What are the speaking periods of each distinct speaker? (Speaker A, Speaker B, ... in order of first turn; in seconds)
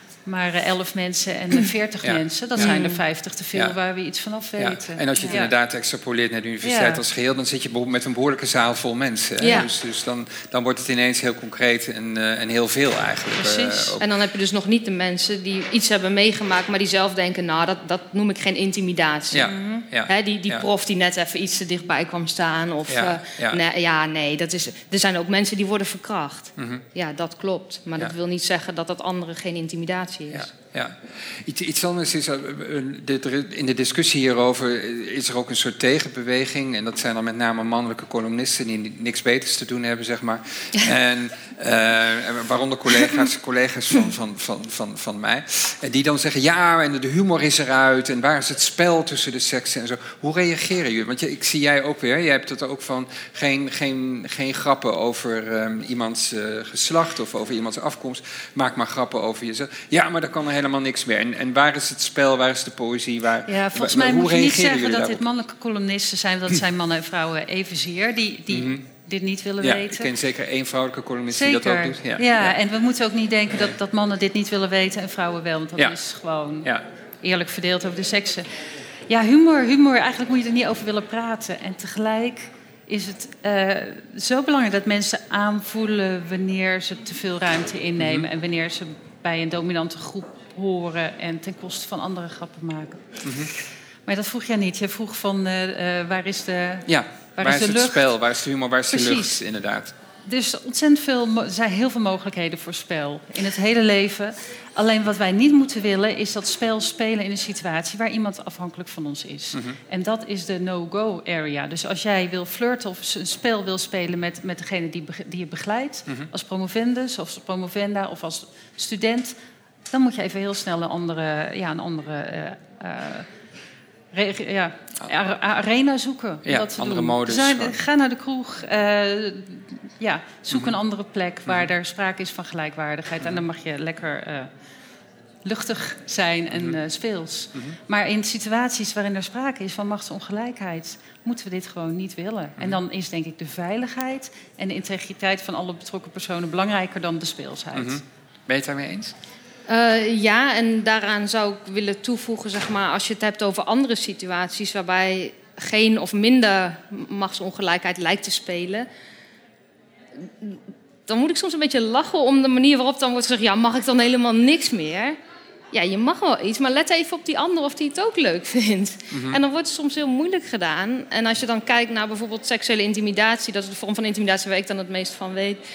Speaker A: 0.2-5.5, 6.6-7.0, 13.4-14.0, 63.5-70.1, 71.3-76.7, 77.2-78.5, 79.1-93.5, 94.0-98.1, 98.9-99.4, 100.2-119.3, 119.9-123.3, 124.1-134.5, 135.4-148.0
Speaker B: 2.0-2.8, 4.6-14.1, 19.3-20.6, 22.9-23.6, 26.6-26.8, 30.3-65.2, 68.5-68.8, 69.6-72.5, 88.0-88.3, 93.2-93.5, 96.9-99.9, 126.4-127.8, 147.7-149.1, 169.1-169.4
Speaker C: 2.6-3.0, 9.4-9.7, 14.0-30.5, 149.7-158.9, 160.2-165.2, 165.7-175.6